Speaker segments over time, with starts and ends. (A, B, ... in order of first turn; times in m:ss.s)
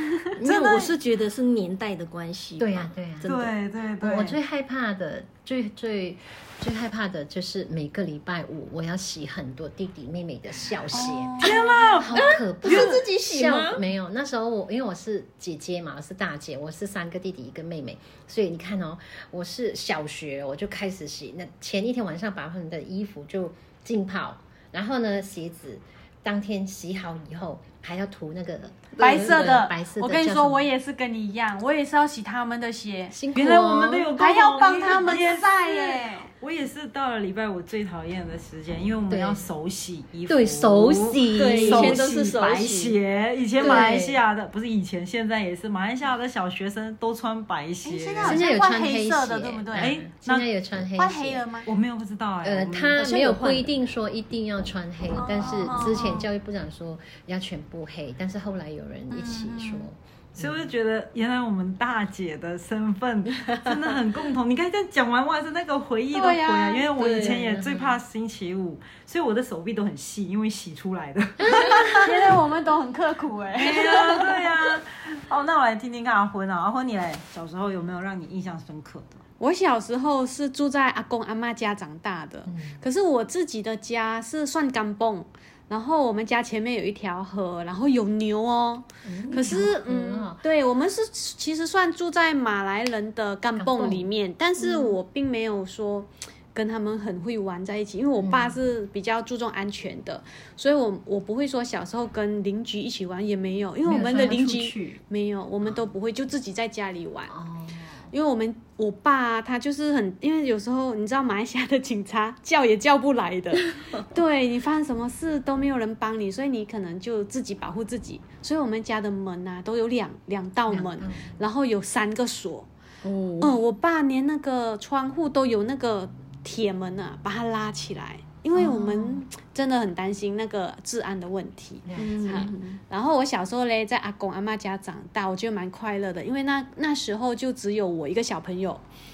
0:00.4-0:03.5 A
0:00.4-0:00.9 B
0:02.6-0:30.7 C
0:03.2-0:04.4 B
0:10.9-0:12.9 B
0:11.0-0:12.0 D
0:12.1-0:13.8 A
0:29.0-0:29.3 A
0:29.0-0:33.2 D
0:33.1-0:34.1 C
0:33.3-0:48.5 B
0:34.2-0:36.3 D
0:39.1-0:39.5 C
0:40.3-0:42.1 C
0:41.3-0:43.0 A
0:43.6-0:44.2 C
0:43.7-0:44.0 A
0:47.8-0:49.9 D
0:48.2-0:51.4 C
0:49.7-0:50.8 B
0:51.0-0:51.7 D
0:51.6-0:53.1 B
0:52.4-1:00.7 C
0:53.0-0:53.7 A
0:55.2-0:56.3 D
0:59.1-0:59.9 D
1:00.4-1:12.1 B
1:06.1-1:06.9 D
1:07.0-1:07.6 A
1:07.3-1:08.0 C
1:11.4-1:12.0 C
1:11.6-1:14.5 D
1:13.6-1:19.2 B
1:19.4-1:47.3 D
1:22.5-1:22.8 C
1:29.0-1:30.4 C
1:33.6-1:34.1 C
1:34.6-1:35.0 C
1:38.2-1:38.6 C
1:43.8-1:45.0 C
1:45.6-1:45.9 C
1:47.3-1:48.1 C
1:48.1-2:02.7 D
2:00.7-2:01.3 C
2:03.0-2:03.6 A
2:03.4-2:18.8 D
2:08.5-2:09.2 C
2:11.8-2:12.5 C
2:12.0-2:12.8 A